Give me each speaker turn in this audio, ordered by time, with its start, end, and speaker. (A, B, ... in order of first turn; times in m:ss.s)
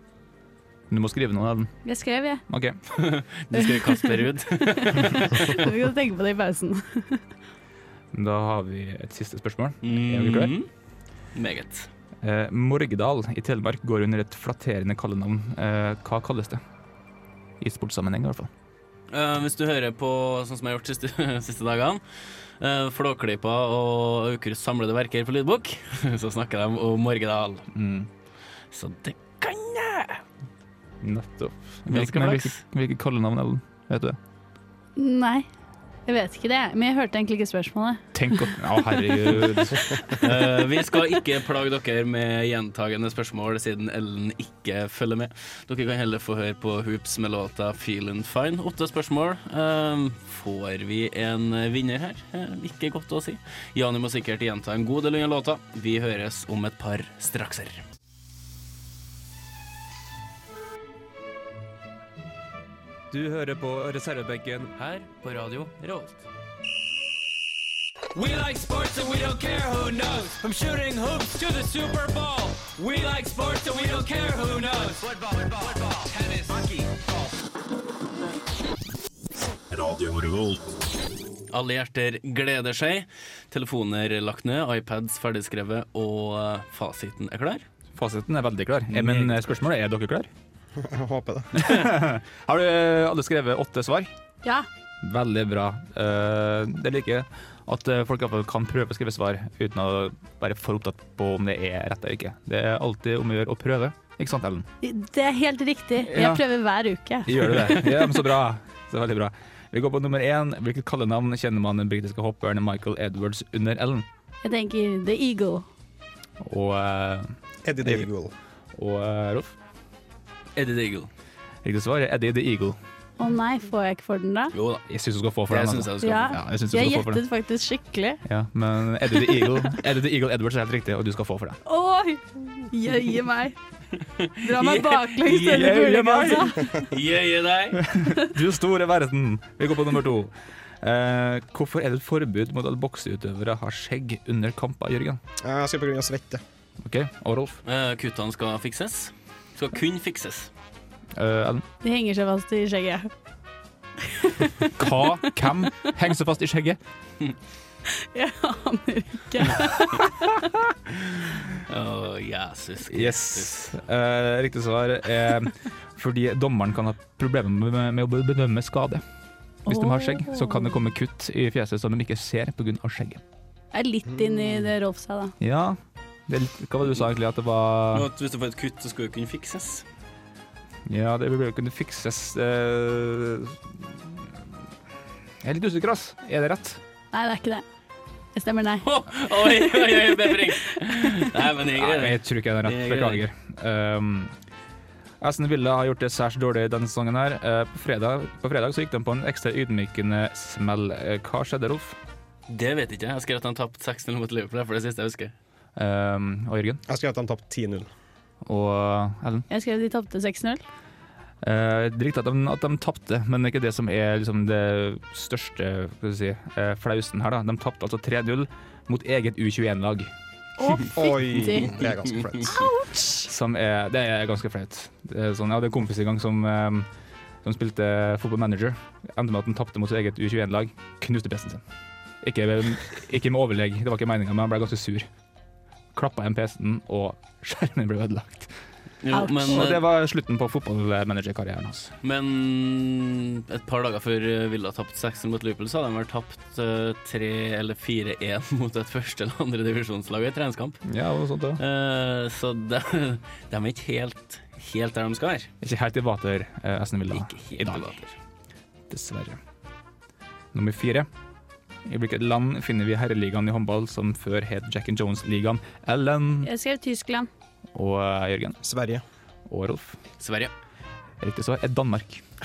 0:00.9-0:01.7 A
0:01.8-0:02.4 B
0:02.5-0:02.8 A
0:02.9-0:05.4 C
0:03.5-0:07.2 B
0:08.1-0:10.5 A
0:09.8-0:10.7 C
0:11.3-0:11.9 C
0:12.2-0:16.6 A
0:17.6-0:18.5 A
0:19.1-0:22.0 C
0:22.6-0:27.7 C
0:27.7-0:28.1 A
0:28.7-0:30.2 C
0:31.0-0:34.2 A
0:31.9-0:32.6 C
0:35.0-0:35.5 B
0:36.1-0:39.1 B
0:38.1-0:40.0 A
0:40.2-0:57.8 C
1:03.1-1:04.7 A
1:04.8-1:06.2 C
1:08.1-1:17.3 D
1:19.7-1:20.6 D
1:21.5-1:27.6 C
1:27.9-1:30.3 A
1:28.9-1:29.3 C
1:30.8-1:31.6 E
1:31.5-1:34.1 A
1:35.0-1:44.7 A
1:44.8-1:47.7 B
1:46.0-1:46.4 A
1:47.2-1:54.1 A
1:54.4-1:55.6 B
1:56.4-1:58.1 A
1:57.6-1:58.3 E
1:58.7-1:59.6 A
2:00.6-2:01.1 C
2:01.6-2:02.8 A
2:03.2-2:04.5 B
2:04.5-2:04.8 C
2:04.9-2:07.2 A
2:05.5-2:06.4 C
2:06.0-2:08.2 B
2:08.2-2:11.6 A
2:11.6-2:13.6 B
2:14.2-2:15.9 C
2:14.4-2:16.8 B
2:15.3-2:16.7 A
2:16.7-2:17.8 C
2:17.7-2:25.2 A
2:25.4-2:26.4 E
2:26.8-2:27.6 A
2:27.6-2:30.5 C
2:31.1-2:31.6 A
2:31.8-2:33.1 B
2:34.0-2:35.0 B
2:34.8-2:36.8 A
2:38.0-2:40.3 B
2:41.0-2:43.7 C
2:42.9-2:49.0 A
2:49.6-2:53.2 A
2:49.7-2:50.8 B
2:53.7-2:55.3 B
2:55.4-2:58.1 A
2:57.9-2:59.8 C
3:00.9-3:04.3 A
3:05.4-3:06.8 A
3:07.1-3:07.6 B
3:08.3-3:10.4 B
3:08.8-3:13.2 C
3:11.7-3:14.3 A
3:15.2-3:22.0 A
3:22.5-3:25.3 C
3:25.8-3:26.8 A
3:26.9-3:27.9 E
3:28.4-3:29.4 A
3:29.5-3:30.6 B
3:31.4-3:40.1 A
3:40.6-3:41.8 B
3:40.9-3:42.6 E
3:42.5-3:43.3 B
3:43.2-3:46.9 A
3:47.4-3:51.6 A
3:52.2-3:55.1 A
3:55.9-3:58.5 A
3:59.0-3:59.8 C
3:59.1-3:59.6 B
3:59.5-4:01.9 A
4:02.0-4:10.8 C
4:10.8-4:11.6 A
4:11.6-4:15.5 C
4:15.6-4:18.0 A
4:17.1-4:18.1 C
4:18.9-4:19.4 A
4:20.5-4:21.1 A
4:21.8-4:26.5 A
4:26.4-4:27.3 B
4:27.7-4:28.6 A
4:28.6-4:29.0 E
4:29.5-4:30.0 A
4:30.2-4:30.5 C
4:31.2-4:32.2 A